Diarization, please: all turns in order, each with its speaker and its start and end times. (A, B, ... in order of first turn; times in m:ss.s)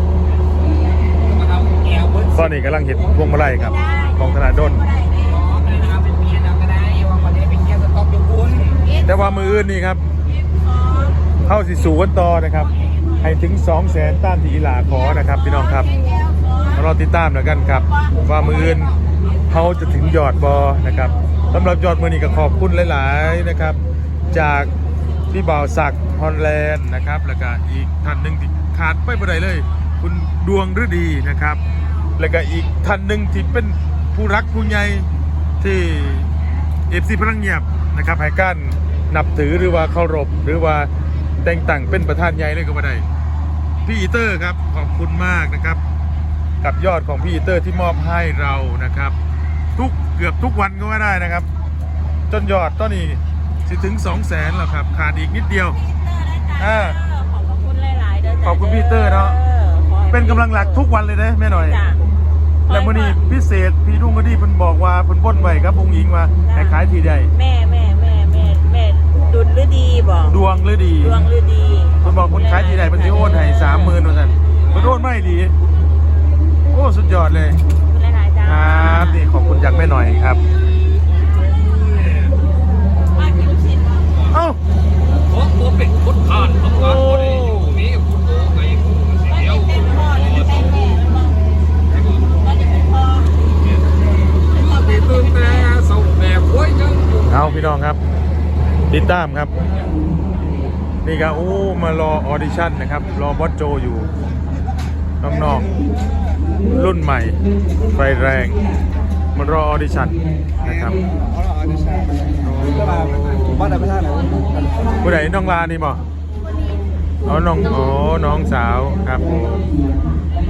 0:01.0-0:02.5 A
0:02.3-0:04.9 B
0:03.0-0:03.4 A
0:03.5-0:05.5 C
0:05.2-0:08.8 A
0:08.8-0:09.7 C
0:09.0-0:10.0 B
0:10.3-0:11.3 C
0:11.4-0:15.9 B
0:15.0-0:16.9 C
0:16.7-0:18.9 B
0:17.8-0:19.0 C
0:19.5-0:23.8 B
0:24.3-0:24.7 B
0:25.3-0:31.6 B
0:32.2-0:35.1 B
0:35.6-0:36.3 B
0:36.9-0:40.9 B
0:41.4-0:43.0 B
0:43.8-0:45.8 B
0:46.6-0:49.1 B
0:49.8-0:51.5 B
0:52.3-0:55.8 B
0:55.8-1:00.8 C
0:56.6-0:57.0 B
0:58.4-0:59.4 B
1:00.1-1:01.8 B
1:01.5-1:02.0 C
1:02.7-1:03.2 C
1:02.7-1:07.3 B
1:06.4-1:06.8 C
1:07.3-1:10.4 C
1:10.3-1:11.2 B
1:11.0-1:14.0 C
1:12.0-1:15.5 B
1:16.7-1:17.6 B
1:17.8-1:19.2 C
1:18.4-1:20.4 B
1:21.9-1:22.2 A
1:23.2-1:24.2 C
1:24.3-1:24.6 B
1:25.3-1:30.7 A
1:26.7-1:27.8 B
1:29.3-1:31.4 C
1:31.9-1:32.3 A
1:32.3-1:33.4 C
1:34.3-1:37.6 A
1:34.5-1:35.8 C
1:37.2-1:38.0 B
1:38.9-1:39.5 B
1:41.0-1:44.1 B
1:45.2-1:45.6 B
1:46.6-1:47.4 B
1:47.9-1:48.6 B
1:49.3-1:51.0 B
1:51.7-1:54.9 D
1:55.0-1:56.0 B
1:57.2-1:59.6 B
1:59.3-2:00.4 D